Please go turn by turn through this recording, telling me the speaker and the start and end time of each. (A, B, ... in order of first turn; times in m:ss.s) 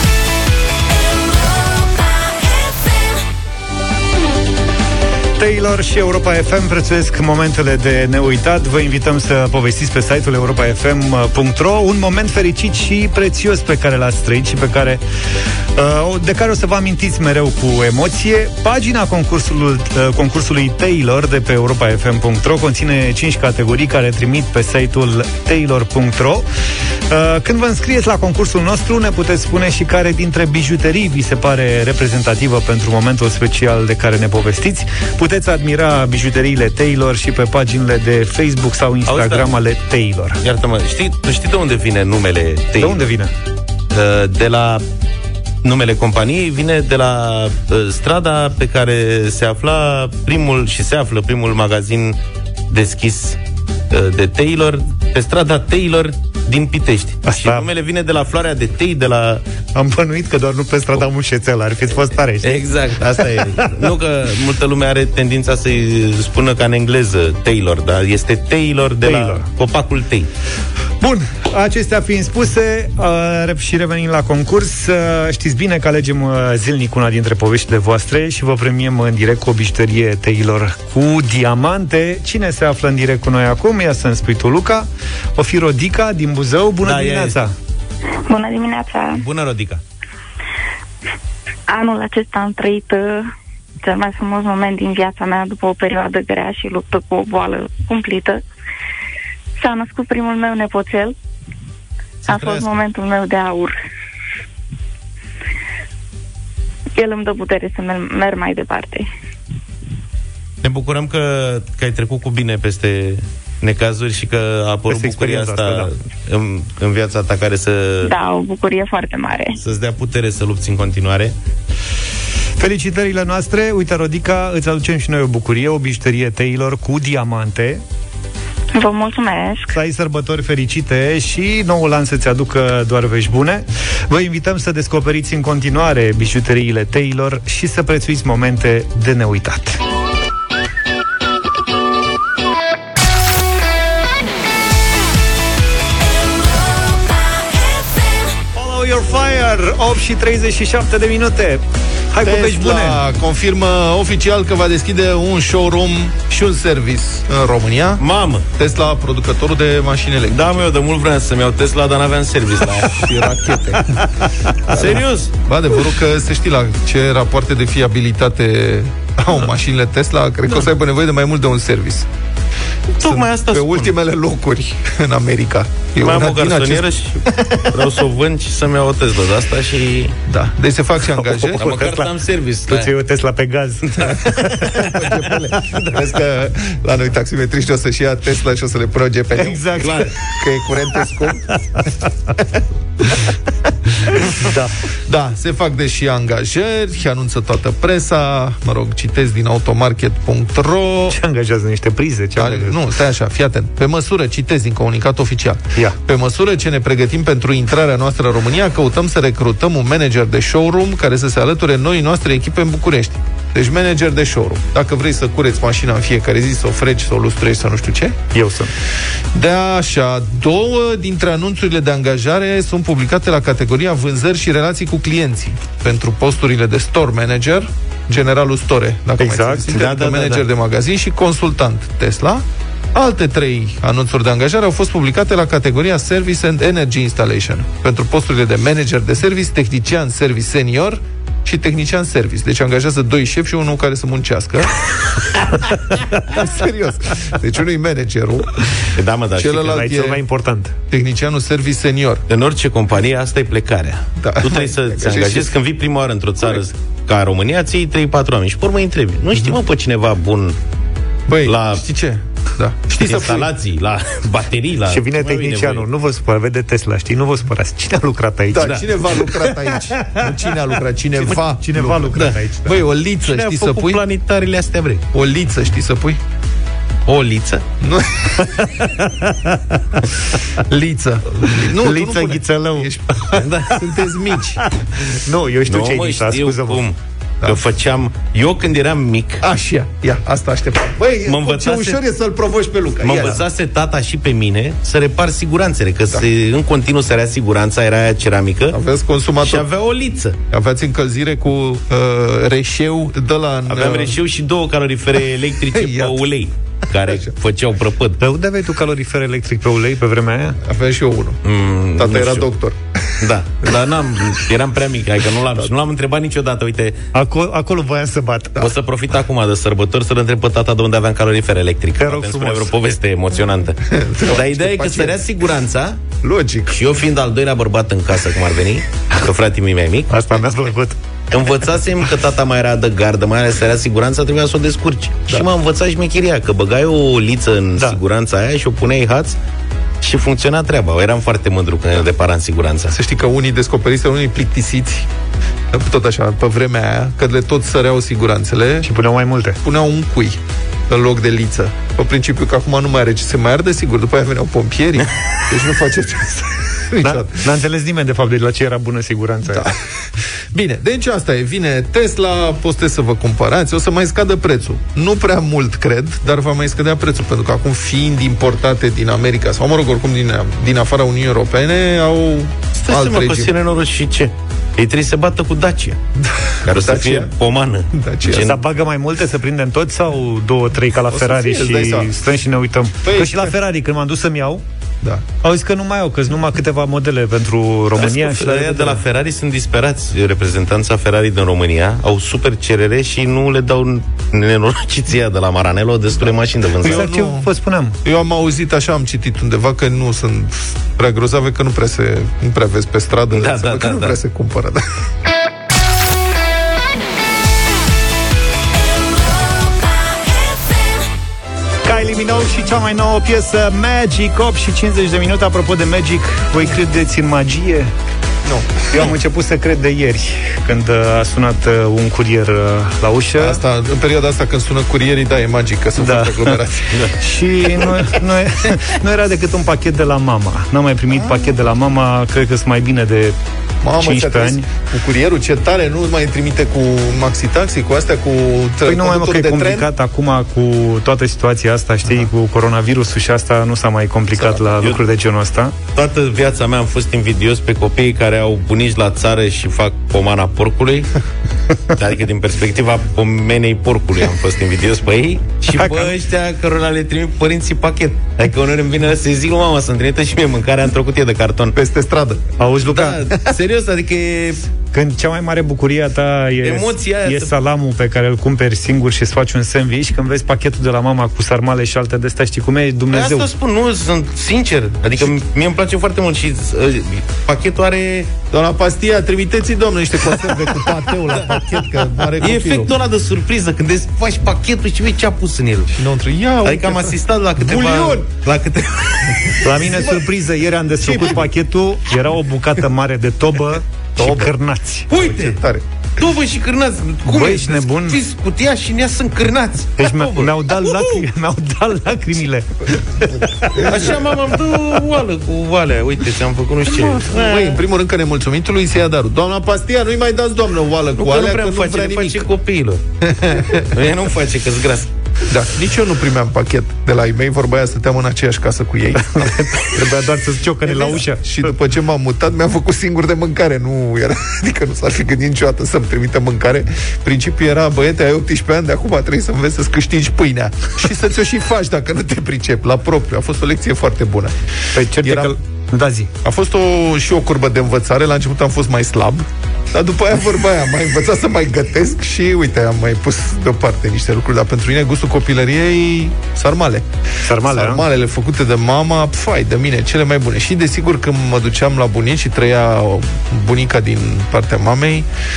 0:05.4-0:15.0 A
0:15.8-0:26.5 A
0:27.1-0:40.4 A
0:39.1-0:39.5 B
0:40.4-0:43.0 B
0:42.8-0:43.3 A
0:43.9-0:44.8 B
0:45.6-0:52.2 B
0:52.7-0:53.4 B
0:53.9-0:59.4 B
0:57.3-0:57.7 A
0:59.8-1:02.7 A
1:02.4-1:10.3 B
1:03.2-1:03.9 A
1:09.0-1:09.5 A
1:11.0-1:27.5 A
1:26.8-1:27.4 B
1:28.3-1:29.2 C
1:29.2-1:29.8 B
1:31.7-1:33.3 C
1:33.8-1:38.4 C
1:39.6-1:41.2 C
1:42.2-1:42.8 B
1:42.3-1:43.8 C
1:47.0-1:49.1 C
1:50.6-1:58.1 B
1:54.9-1:55.9 A
1:58.0-1:59.6 C
1:59.6-2:01.4 B
2:02.6-2:07.8 A
2:08.8-2:09.8 C
2:09.7-2:19.8 A
2:28.6-2:33.0 A
2:32.2-2:40.6 D
2:38.0-2:38.5 B
2:40.3-2:43.1 B
2:42.9-2:44.0 D
2:44.7-2:52.1 D
2:44.7-2:45.3 B
2:53.0-2:54.0 B
2:53.0-2:57.7 D
2:56.0-3:00.2 B
3:00.3-3:01.7 D
3:01.2-3:02.1 A
3:01.6-3:02.9 B
3:02.7-3:04.9 A
3:04.0-3:04.9 B
3:04.7-3:11.6 D
3:09.4-3:10.1 A
3:09.6-3:10.2 B
3:11.5-3:11.8 A
3:12.4-3:13.3 D
3:14.0-3:14.3 D
3:14.3-3:14.8 A
3:15.1-3:21.2 D
3:21.1-3:22.8 A
3:22.4-3:38.2 D
3:38.3-3:38.7 A
3:39.3-4:04.8 D
3:49.2-3:49.8 A
3:49.7-3:50.4 B
4:06.3-4:10.2 D
4:09.0-4:09.8 B
4:09.6-4:10.7 A
4:10.9-4:12.2 D
4:12.3-4:20.6 B
4:14.2-4:15.6 D
4:19.3-4:19.6 D
4:21.3-4:23.5 D
4:21.4-4:21.8 B
4:23.0-4:25.9 B
4:24.9-4:29.2 A
4:28.5-4:34.0 D
4:28.6-4:28.9 B
4:31.2-4:32.8 A
4:33.2-4:35.0 B
4:35.1-4:36.2 D
4:37.1-4:37.7 B
4:37.8-4:38.4 D
4:38.4-4:40.4 A
4:40.7-4:44.6 D
4:41.4-4:44.0 A
4:43.3-4:43.7 B
4:44.6-4:46.8 A
4:45.7-4:49.4 B
4:49.4-4:53.4 D
4:51.3-4:52.0 B
4:53.0-4:58.8 B
4:58.7-4:59.7 D
4:59.4-5:00.4 B
5:00.5-5:04.2 D
5:03.7-5:08.2 B
5:05.7-5:06.2 D
5:07.0-5:07.3 D
5:08.2-5:10.6 A
5:10.6-5:11.4 D
5:11.4-5:12.5 B
5:12.0-5:13.8 D
5:13.2-5:17.0 B
5:17.1-5:18.6 A
5:18.6-5:26.0 B
5:22.0-5:22.7 A
5:23.9-5:25.2 D
5:26.2-5:26.8 D
5:26.7-5:30.5 B
5:30.1-5:31.0 A
5:31.3-5:39.4 B
5:40.0-5:42.9 B
5:42.9-5:45.1 D
5:45.7-5:48.9 D
5:48.8-5:49.6 A
5:49.6-5:57.5 D
5:57.0-5:59.7 A
5:59.5-6:13.5 D
6:12.8-6:16.0 B
6:16.2-6:17.3 D
6:16.6-6:18.6 B
6:17.9-6:18.6 D
6:18.4-6:24.6 A
6:21.1-6:22.1 D
6:23.0-6:23.5 D
6:25.4-6:29.0 A
6:28.0-6:37.1 B
6:36.8-6:37.5 D
6:36.8-6:38.0 A
6:38.0-6:45.0 D
6:43.3-6:44.2 B
6:51.8-6:57.9 A
6:58.4-6:59.1 D
6:58.9-7:03.6 A
7:03.4-7:07.0 D
7:06.0-7:06.6 A
7:07.1-7:13.4 A
7:11.1-7:11.6 D
7:13.8-7:19.9 D
7:14.0-7:14.7 A
7:18.9-7:25.8 A
7:24.4-7:24.8 D
7:26.0-7:31.1 B
7:31.9-7:41.8 B
7:35.8-7:36.1 A
7:41.7-7:42.4 D
7:42.6-7:43.2 A
7:42.8-7:44.6 B
7:44.9-7:53.5 A
7:46.6-7:47.5 B
7:53.1-7:58.3 B
7:58.5-8:02.9 D
8:00.4-8:01.7 B
8:02.4-8:06.0 B
8:05.9-8:08.3 D
8:06.6-8:10.0 B
8:09.6-8:15.1 A
8:09.8-8:10.2 D
8:11.0-8:11.4 D
8:14.2-8:14.6 D
8:15.1-8:15.6 B
8:15.1-8:15.8 D
8:16.2-8:20.5 B
8:17.3-8:18.2 A
8:20.0-8:24.0 A
8:20.1-8:20.5 D
8:23.2-8:24.3 D
8:23.8-8:27.8 B
8:26.9-8:32.5 D
8:31.2-8:35.1 B
8:33.2-8:34.0 D
8:35.5-8:39.7 D
8:39.3-8:41.7 A
8:40.8-8:54.6 D
8:54.9-8:56.3 A
8:55.2-8:55.6 D
8:56.4-9:15.3 D
9:07.4-9:08.1 A